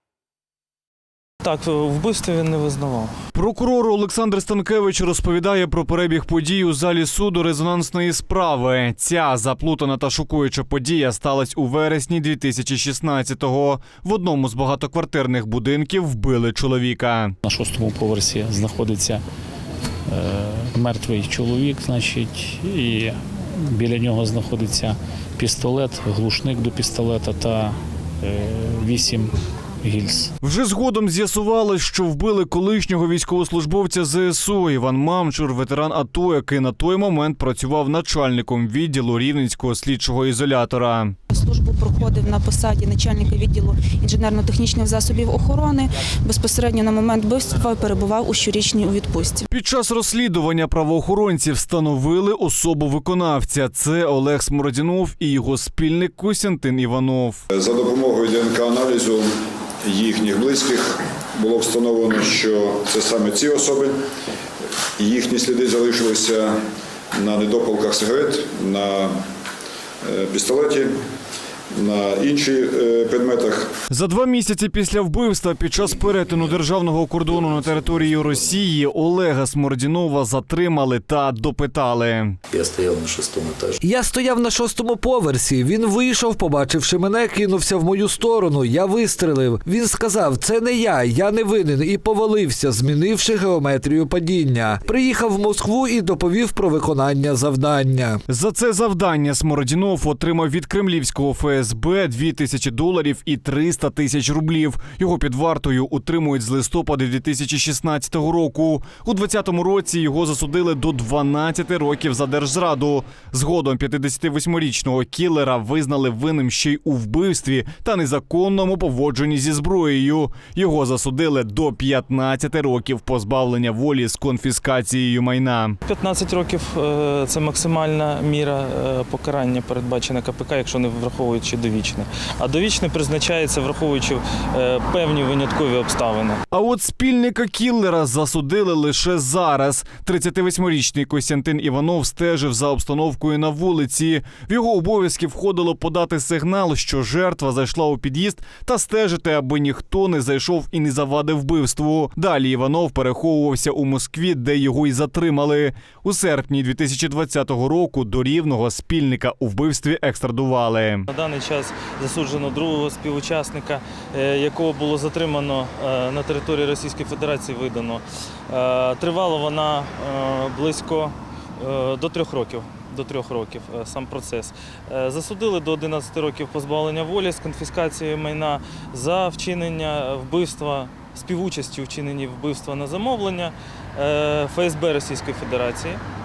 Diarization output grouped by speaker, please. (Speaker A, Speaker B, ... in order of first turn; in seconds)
Speaker A: 1.4-3.1, 125.9-136.4, 161.1-186.0
Speaker B: 3.3-17.3, 30.4-41.1, 49.5-57.4, 73.9-82.4, 98.3-125.8, 136.5-161.1
Speaker C: 17.4-19.2, 20.1-30.3
Speaker D: 41.3-49.4
Speaker E: 57.5-59.2, 59.8-64.0, 65.0-66.6, 67.1-69.2, 70.0-71.0, 71.7-73.7
Speaker F: 75.8-76.5, 77.3-78.5, 82.5-83.8
Speaker G: 83.8-98.2